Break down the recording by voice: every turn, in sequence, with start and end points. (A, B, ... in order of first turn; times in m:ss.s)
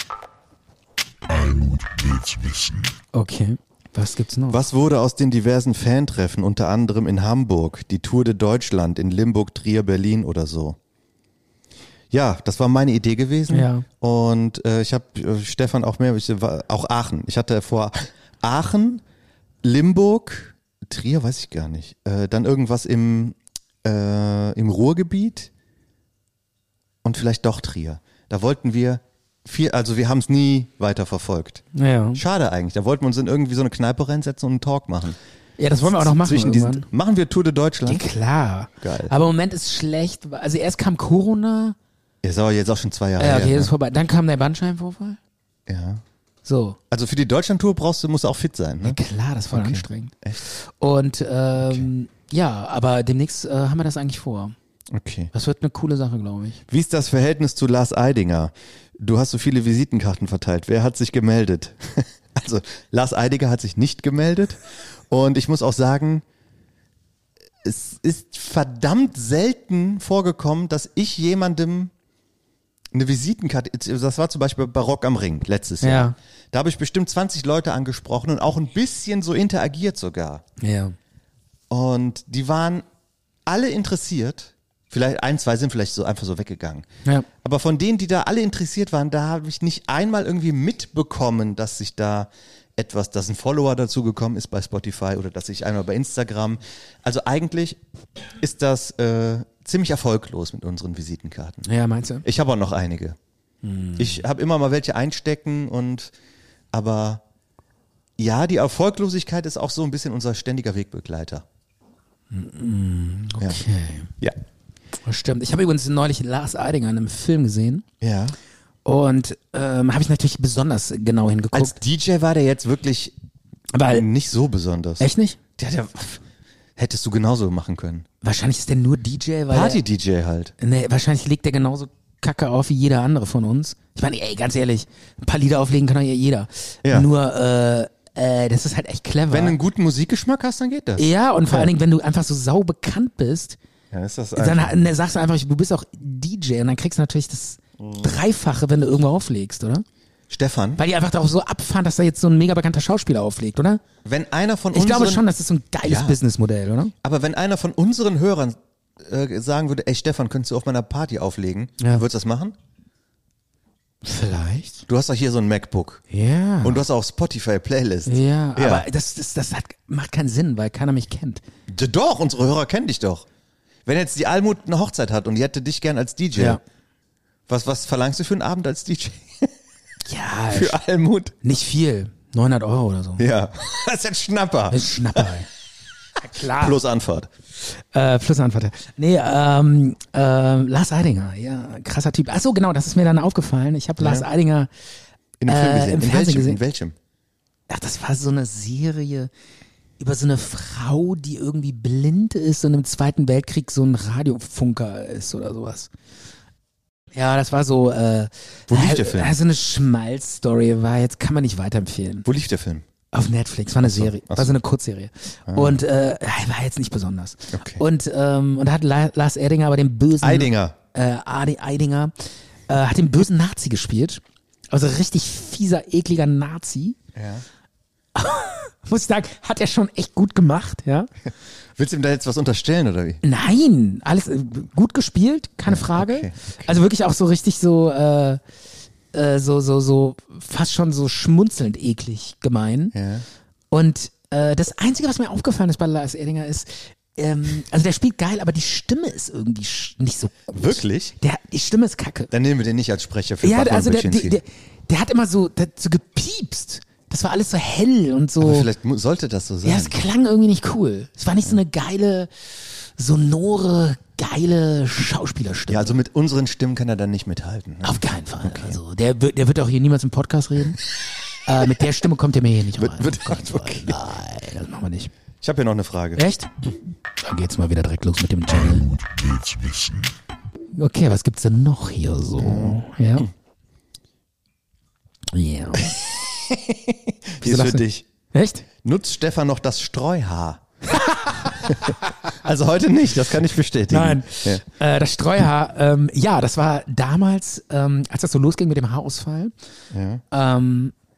0:01.3-0:03.0 A
0:03.1-0:04.6 B
0:04.5-0:10.8 C
0:12.1-0:19.0 C
0:13.5-0:13.8 B
0:19.6-0:25.5 C
0:27.0-0:35.2 C
0:31.7-0:32.2 B
0:35.6-0:36.9 B
0:35.8-0:38.0 C
0:37.8-0:41.8 B
0:38.8-0:39.1 C
0:42.2-0:43.7 C
0:43.2-0:45.2 B
0:45.7-0:46.0 C
0:46.4-0:46.8 B
0:46.9-0:49.0 C
0:48.8-0:54.5 B
0:49.5-0:50.4 C
0:51.6-0:51.9 C
0:54.9-0:55.3 C
0:55.3-0:56.6 B
0:56.7-1:06.2 C
1:07.6-1:11.9 C
1:12.9-1:20.4 C
1:15.8-1:16.2 B
1:20.6-1:20.9 B
1:21.7-1:22.8 C
1:23.4-1:26.8 C
1:27.4-1:37.8 C
1:38.4-1:41.7 C
1:41.6-1:42.2 B
1:42.2-1:43.2 C
1:43.6-1:44.2 B
1:44.0-1:46.1 C
1:46.7-1:47.2 C
1:48.2-1:51.4 C
1:52.3-1:54.1 B
1:55.0-1:57.8 B
1:58.0-1:58.4 C
1:58.8-2:01.8 B
2:01.5-2:03.1 C
2:03.7-2:04.0 B
2:03.8-2:06.2 C
2:05.0-2:05.4 B
2:06.8-2:08.0 C
2:08.2-2:09.8 B
2:09.5-2:10.5 C
2:10.6-2:19.6 B
2:19.3-2:21.7 C
2:21.0-2:23.6 B
2:23.9-2:24.8 C
2:24.3-2:29.8 B
2:27.8-2:28.1 C
2:30.3-2:30.8 C
2:30.8-2:33.8 B
2:34.0-2:35.2 C
2:34.7-2:36.9 B
2:35.8-2:36.2 C
2:37.0-2:42.5 C
2:44.0-2:44.8 B
2:44.9-2:46.0 C
2:46.1-2:46.8 B
2:46.6-2:48.8 C
2:48.0-2:51.4 B
2:51.7-2:53.2 C
2:53.8-2:56.6 C
2:56.3-2:56.6 B
2:57.5-2:59.5 C
3:00.0-3:00.8 B
3:00.5-3:01.3 C
3:01.4-3:03.2 B
3:03.2-3:05.3 C
3:04.7-3:05.5 B
3:06.2-3:06.8 B
3:06.4-3:07.3 C
3:07.6-3:14.7 B
3:14.0-3:14.3 C
3:15.4-3:17.0 C
3:15.5-3:16.6 B
3:17.7-3:19.3 B
3:20.0-3:25.9 B
3:27.1-3:32.2 B
3:28.7-3:29.3 C
3:32.2-3:32.8 C
3:33.1-3:42.1 B
3:33.8-3:34.6 C
3:35.5-3:35.8 C
3:37.6-3:37.8 C
3:40.2-3:40.8 C
3:42.7-3:47.0 B
3:47.1-3:47.4 C
3:48.1-3:51.1 B
3:51.8-3:53.2 C
3:53.2-3:58.4 B
3:55.6-3:56.8 C
3:59.1-4:02.9 B
4:02.9-4:03.2 C
4:03.7-4:12.3 B
4:10.5-4:11.1 C
4:12.3-4:14.4 C
4:13.4-4:18.7 B
4:18.4-4:19.9 C
4:19.6-4:22.3 B
4:23.0-4:26.0 B
4:25.7-4:28.8 C
4:27.8-4:30.8 B
4:31.4-4:35.1 B
4:32.8-4:34.0 C
4:35.4-4:36.2 C
4:36.2-4:36.5 B
4:37.2-4:38.9 B
4:38.5-4:40.1 A
4:40.8-4:43.3 B
4:42.4-4:43.2 C
4:45.3-4:46.0 B
4:47.4-4:48.0 C
4:47.4-4:48.6 B
4:48.8-4:50.6 C
4:50.9-4:51.9 B
4:51.4-4:54.6 C
4:53.9-4:59.5 B
4:59.9-5:00.2 C
5:00.3-5:00.9 B